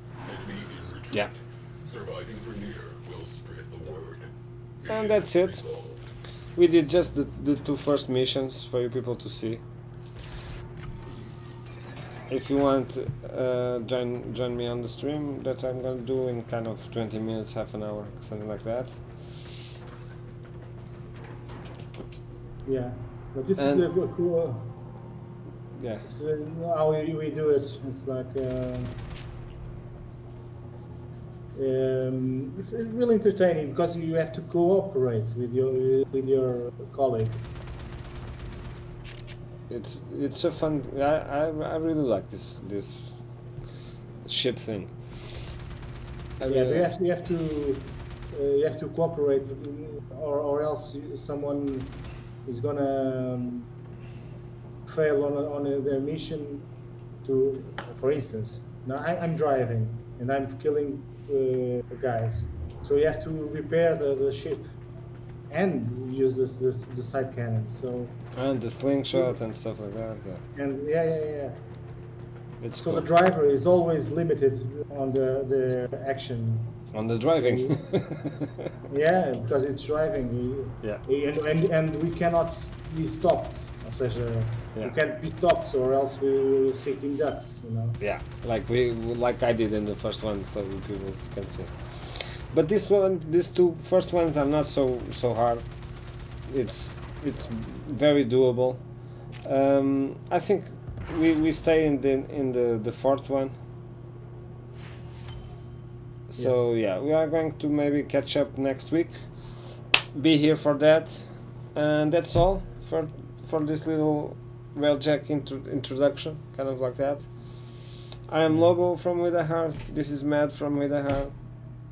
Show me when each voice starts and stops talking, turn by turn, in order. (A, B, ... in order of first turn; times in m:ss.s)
0:00.2-0:06.1 A
0:04.9-0:05.7 B
0:06.6-0:09.6 B
0:12.3-0:19.4 B
0:22.6-0:24.8 C
0:23.6-0:23.9 B
0:25.7-0:26.1 B
0:26.0-0:29.0 C
0:31.5-0:37.4 C
0:39.7-0:43.1 B
0:44.2-0:44.9 B
0:46.4-0:46.9 B
0:46.4-0:53.7 C
0:54.9-0:56.7 C
0:57.2-1:04.7 C
1:05.5-1:08.2 C
1:08.4-1:10.4 B
1:10.6-1:11.6 C
1:12.6-1:13.1 B
1:12.8-1:17.8 C
1:16.9-1:18.8 B
1:18.9-1:28.0 C
1:28.0-1:35.6 B
1:36.5-1:38.8 B
1:39.4-1:43.6 B
1:46.3-1:49.3 B
1:50.1-1:57.3 B
1:58.3-2:01.4 B